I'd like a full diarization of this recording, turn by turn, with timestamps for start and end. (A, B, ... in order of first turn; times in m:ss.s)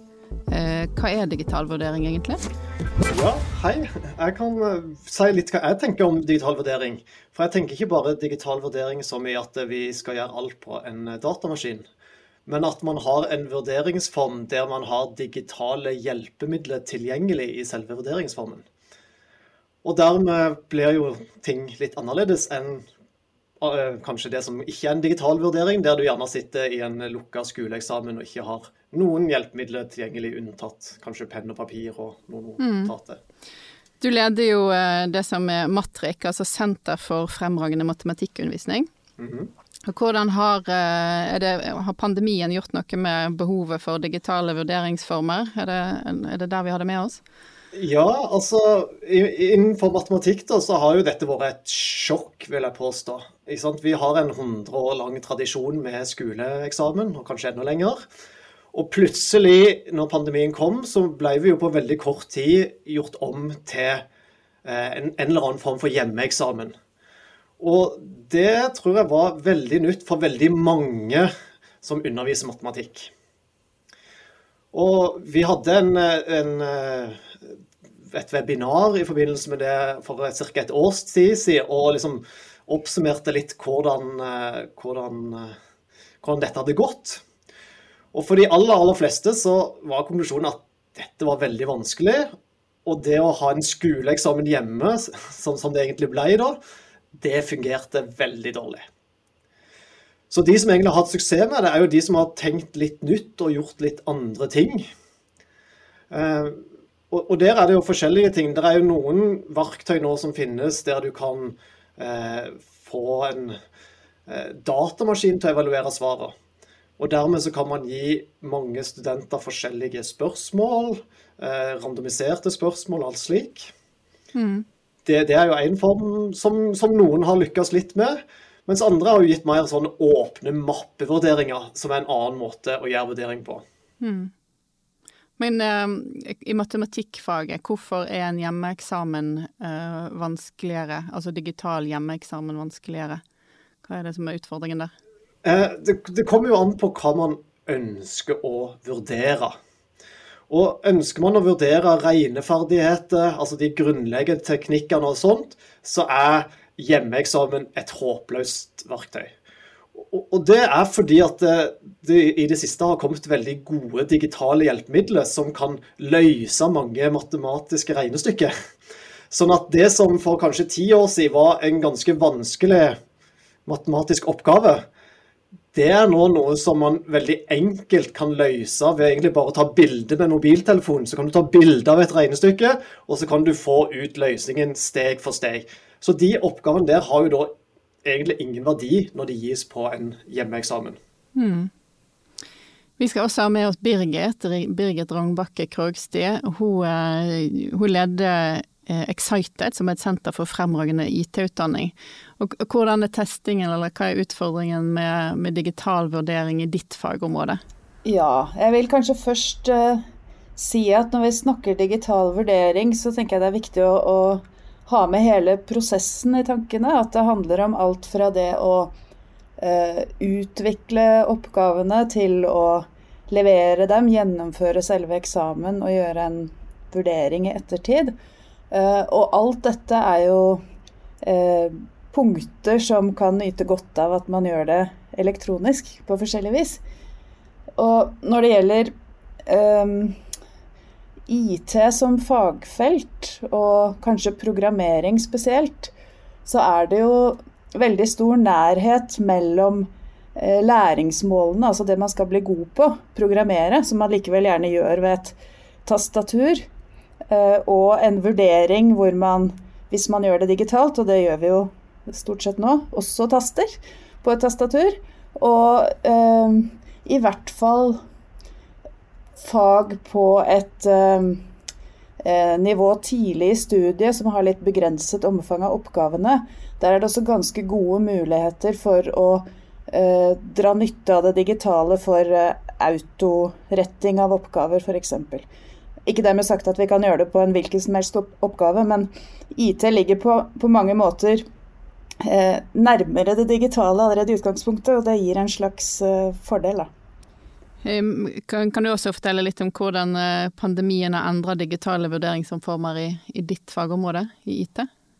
0:00.5-0:02.4 A
0:03.1-0:11.9 B
0:12.4-0:18.6 B
0:19.8-0:22.8 B
0:23.6-0:33.2 B
0:32.6-0:32.9 A
0:34.0-0:38.9 A
0:39.2-0:39.5 B
0:39.9-0:47.2 A
0:47.7-0:58.0 B
0:58.7-1:04.0 B
1:04.6-1:06.8 B
1:07.6-1:11.3 B
1:11.8-1:13.1 B
1:14.7-1:17.3 B
1:18.1-1:25.6 B
1:26.2-1:27.2 B
1:28.1-1:32.3 B
1:32.8-1:36.6 B
1:37.1-1:38.9 B
1:40.3-1:44.8 B
1:46.1-1:53.6 B
1:54.3-1:56.3 B
1:57.0-2:03.7 B
2:04.3-2:04.7 A
2:05.0-2:13.6 B
2:14.0-2:14.3 A
2:15.4-2:23.2 A
2:23.8-2:24.9 A
2:25.4-2:29.6 B
2:30.5-2:39.3 B
2:40.0-2:48.5 B
2:49.3-2:53.0 B
2:53.7-2:54.8 B
2:55.7-3:07.5 B
3:08.0-3:11.0 B
3:11.3-3:11.7 A
3:13.0-3:27.6 A
3:28.0-3:30.0 C
3:30.6-3:38.9 C
3:39.6-3:48.1 C
3:48.7-3:50.6 C
3:51.2-3:56.8 C
3:57.8-3:58.9 C
3:59.5-4:00.2 C
4:01.3-4:05.9 C
4:06.4-4:16.6 C
4:17.3-4:28.0 C
4:29.4-4:31.4 C
4:32.2-4:45.5 C
4:46.0-4:51.4 C
4:52.2-4:56.9 C
4:57.8-5:04.9 A